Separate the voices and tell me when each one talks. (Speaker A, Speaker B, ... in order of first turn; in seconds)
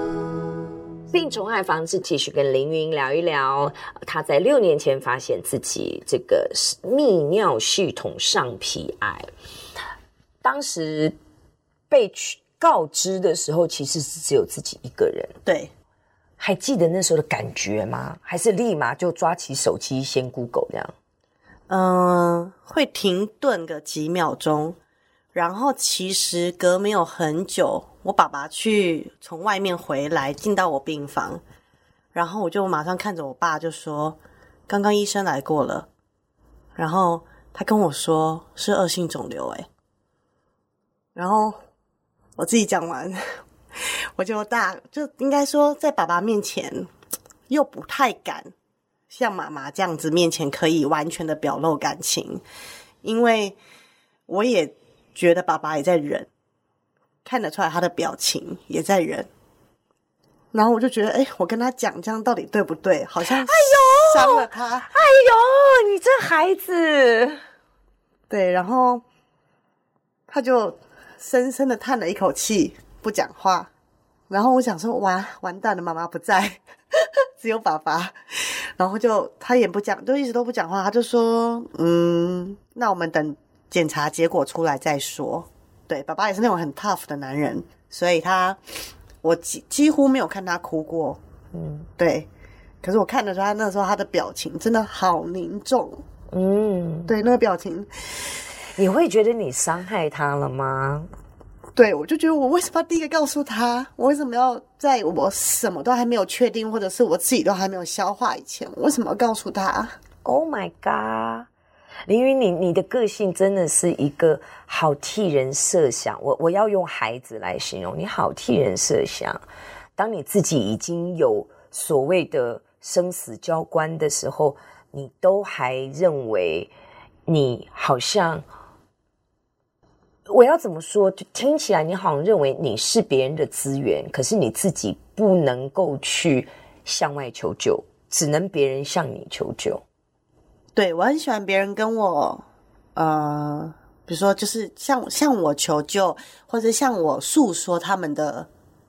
Speaker A: 1.1-9.3, 10.4-11.2, 11.9-15.3, 16.4-20.9, 63.3-67.4, 91.5-91.9, 96.3-97.1, 98.8-101.1, 110.2-111.5, 112.1-119.4, 120.0-126.7, 127.3-128.4, 130.3-139.8
Speaker B: 15.4-15.7, 21.7-24.8, 25.3-31.4, 32.1-35.9, 36.8-39.7, 41.1-41.6, 42.4-43.2, 43.8-46.9, 47.5-48.5, 49.1-52.4, 53.0-53.6, 54.3-56.3, 57.2-59.3, 60.5-64.9, 68.3-69.0, 70.3-73.7, 74.3-76.6, 77.4-88.6, 89.2-91.2, 92.0-92.3, 92.8-96.0, 97.1-97.9, 101.7-109.9, 140.8-142.4, 142.9-148.5